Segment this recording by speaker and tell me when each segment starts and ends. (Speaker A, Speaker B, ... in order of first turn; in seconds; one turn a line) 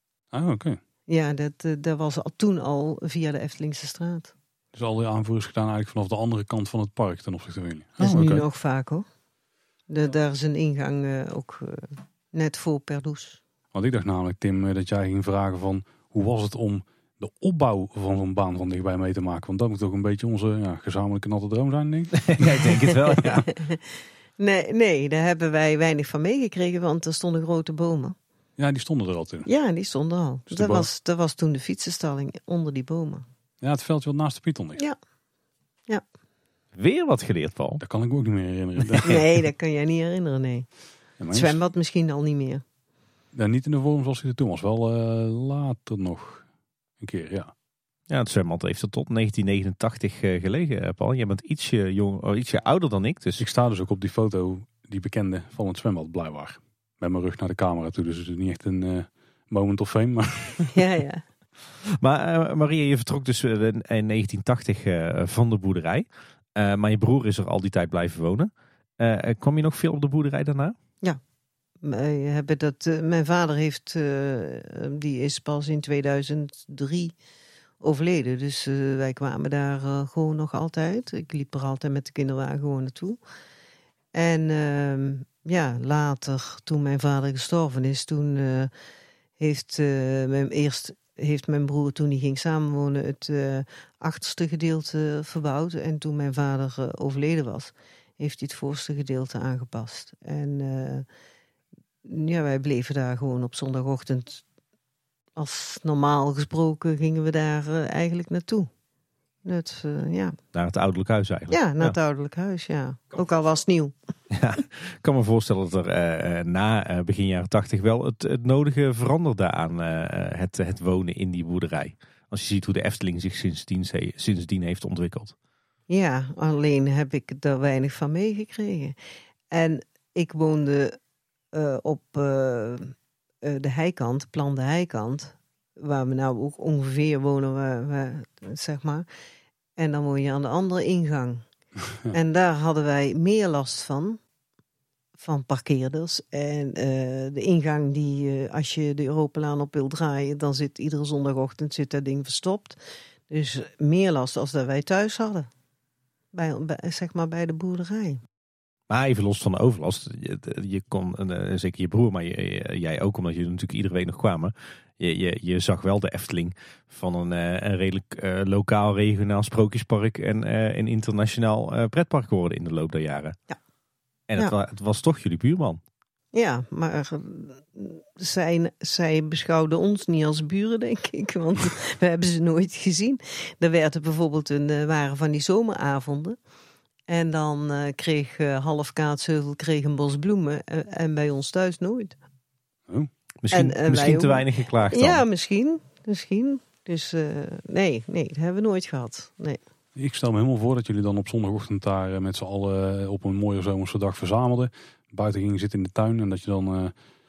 Speaker A: 0.3-0.8
Speaker B: 1.1-4.3
Speaker A: 4.7-8.4
Speaker B: 8.0-9.1
Speaker B: 9.9-13.4
Speaker A: 13.7-22.5
Speaker C: 22.3-23.5
Speaker B: 23.4-23.8
Speaker B: 24.4-28.1
Speaker A: 28.6-29.5
Speaker B: 29.4-33.2
Speaker A: 30.5-30.9
Speaker A: 33.6-34.8
Speaker C: 36.7-37.8
Speaker A: 37.8-39.2
Speaker B: 39.0-40.7
Speaker A: 41.2-41.6
Speaker B: 41.3-42.6
Speaker A: 43.3-46.5
Speaker A: 47.0-47.5
Speaker C: 48.1-53.4
Speaker A: 53.4-60.8
Speaker B: 60.7-61.2
Speaker C: 61.9-70.7
Speaker B: 71.8-77.1
Speaker B: 77.8-83.2
Speaker B: 84.1-88.7
Speaker B: 89.4-101.0
Speaker B: 102.0-104.4
Speaker B: 105.3-108.7
Speaker B: 109.4-110.4
Speaker C: 110.5-111.9
Speaker B: 111.5-113.9
Speaker C: 114.3-125.3
Speaker B: 125.9-128.9
Speaker B: 129.5-130.9
Speaker B: 131.5-139.1
Speaker B: 139.8-141.4
Speaker B: 142.1-144.2
Speaker B: 145.2-155.5
Speaker B: 156.3-158.2
Speaker C: 158.9-173.4
Speaker C: 174.3-175.8
Speaker B: 176.3-186.4
Speaker B: 187.1-192.2
Speaker C: 193.4-195.2
Speaker B: 193.5-199.6
Speaker A: 199.9-206.9